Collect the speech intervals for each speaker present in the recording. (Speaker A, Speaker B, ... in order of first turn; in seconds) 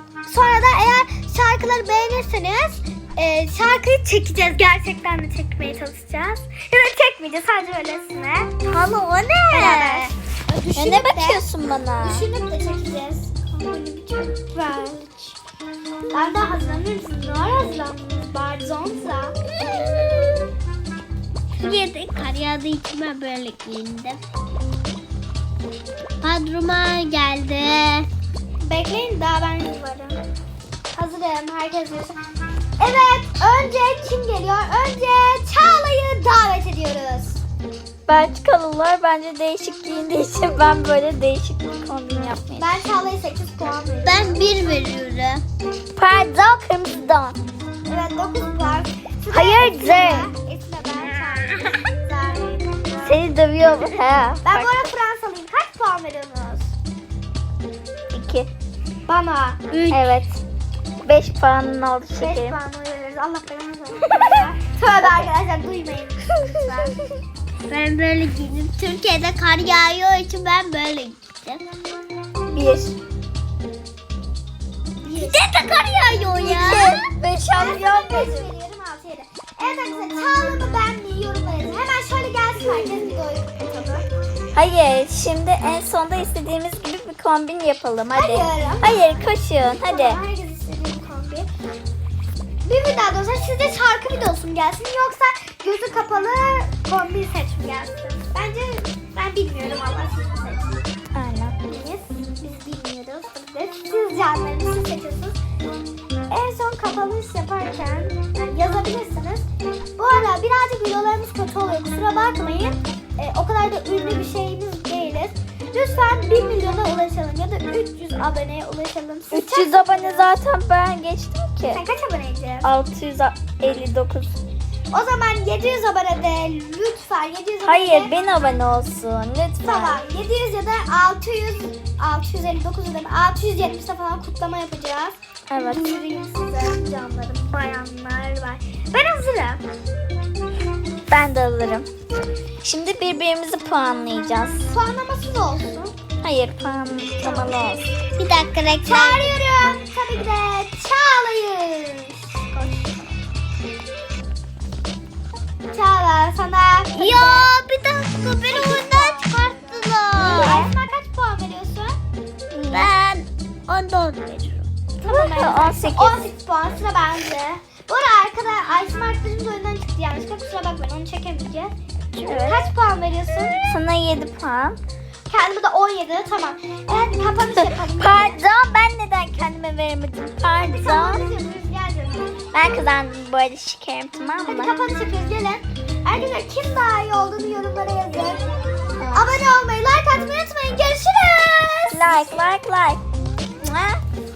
Speaker A: 0.3-8.5, 9.5-11.5, 12.0-15.4, 16.1-19.3, 28.6-30.2, 30.9-32.2, 32.8-37.4, 42.6-44.5, 47.9-53.3, 54.4-56.7, 59.1-59.7, 62.1-67.0, 75.0-75.5, 77.5-84.1, 88.1-89.3, 89.8-91.5, 92.7-100.8, 101.7-105.4, 106.3-109.5, 110.0-120.3, 121.7-122.7, 124.9-128.1, 129.6-139.6, 144.7-145.9, 147.2-147.6, 148.8-153.1, 155.7-157.5, 158.5-162.0, 165.0-171.7, 172.3-173.6, 175.3-178.4, 180.6-182.7, 184.5-192.4
Speaker B: 8.6-10.1, 19.6-20.4, 21.6-24.3, 26.2-28.1, 44.0-45.4, 59.7-60.0, 67.7-71.7, 75.2-77.0, 148.2-149.4, 156.9-160.6, 162.7-164.7
Speaker C: 10.8-12.2, 38.1-42.7, 46.0-47.4, 49.3-50.3, 53.0-54.9, 58.1-58.5, 59.9-60.4, 61.0-62.6, 66.5-66.8, 72.5-73.0, 76.4-78.5, 84.5-90.2, 101.1-101.6, 119.3-121.8, 122.6-124.4, 127.6-130.0, 135.5-135.9, 141.1-141.9, 142.6-144.7, 146.2-147.9, 160.2-160.7, 162.5-162.9, 165.1-166.3, 172.2-172.7, 173.7-174.8, 177.8-181.2, 182.5-184.7, 189.0-189.4, 191.9-193.0, 193.6-194.0